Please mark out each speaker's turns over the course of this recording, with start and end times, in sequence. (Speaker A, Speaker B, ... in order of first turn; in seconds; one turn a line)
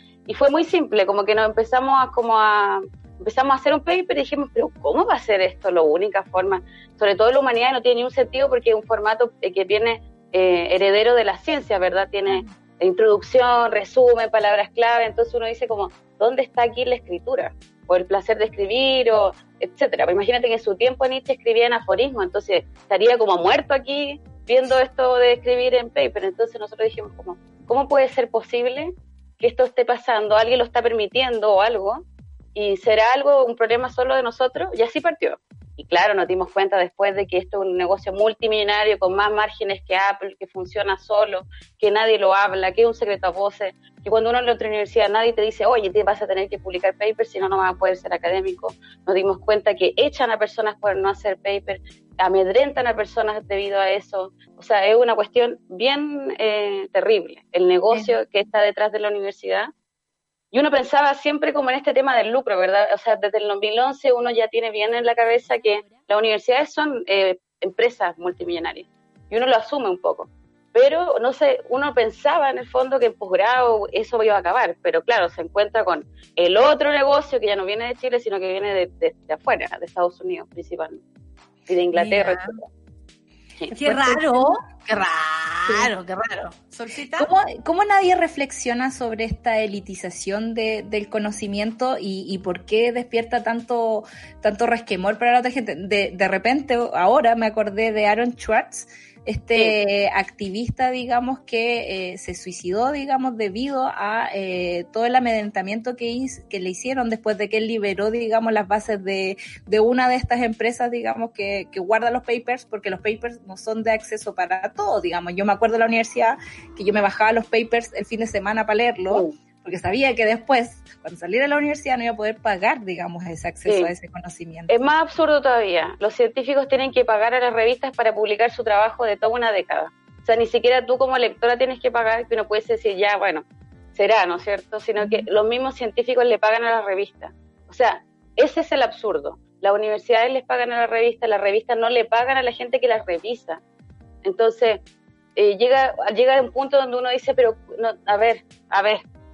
Speaker A: 0.3-32.0
Speaker A: 32.5-59.7
Speaker A: 60.5-81.0
Speaker A: 81.7-82.7
Speaker B: 81.9-82.5
Speaker B: 83.7-87.3
Speaker C: 83.8-84.6
Speaker C: 87.2-124.8
Speaker A: 123.7-123.9
Speaker A: 124.7-143.6
Speaker C: 135.0-135.3
Speaker A: 144.2-144.8
Speaker A: 145.4-149.0